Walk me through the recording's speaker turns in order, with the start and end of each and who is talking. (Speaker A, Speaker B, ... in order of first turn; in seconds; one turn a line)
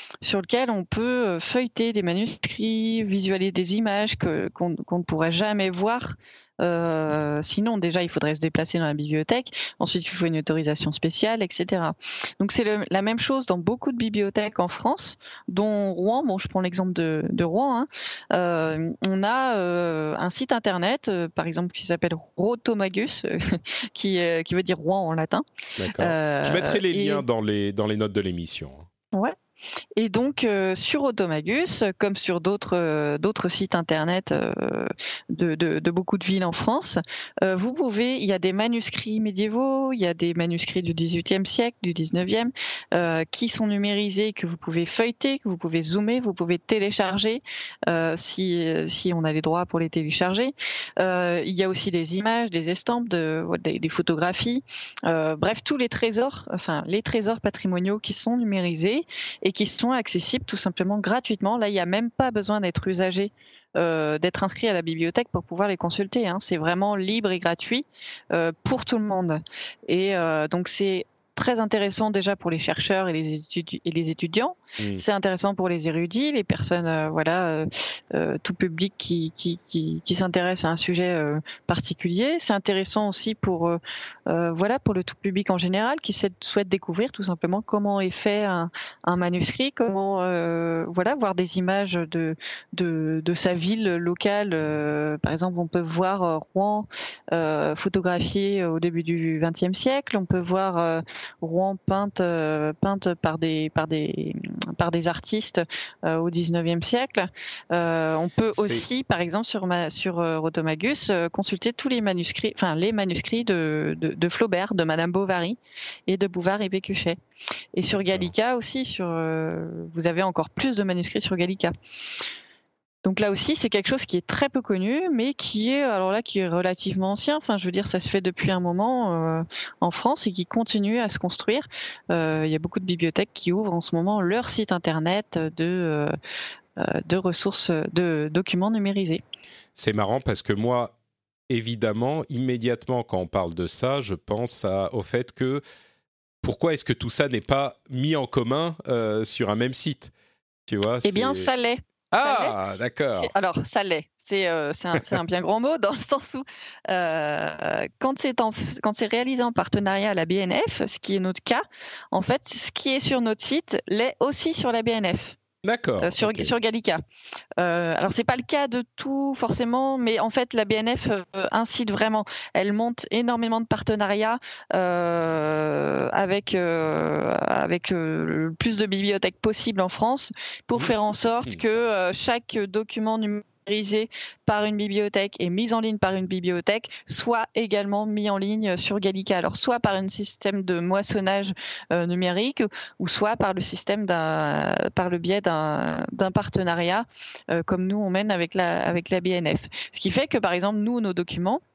Speaker A: 0.2-25.4
Speaker B: 25.8-28.9
Speaker A: 26.0-27.2
Speaker A: 29.9-117.2
Speaker B: 108.5-108.8
Speaker A: 117.7-121.7
Speaker A: 123.0-136.1
Speaker A: 136.8-139.2
Speaker B: 139.8-140.9
Speaker B: 141.5-145.6
Speaker B: 146.4-150.1
Speaker B: 150.7-151.5
Speaker A: 151.0-152.5
Speaker B: 152.1-153.3
Speaker A: 153.1-165.3
Speaker B: 165.6-166.5
Speaker A: 166.0-167.0
Speaker A: 167.6-201.6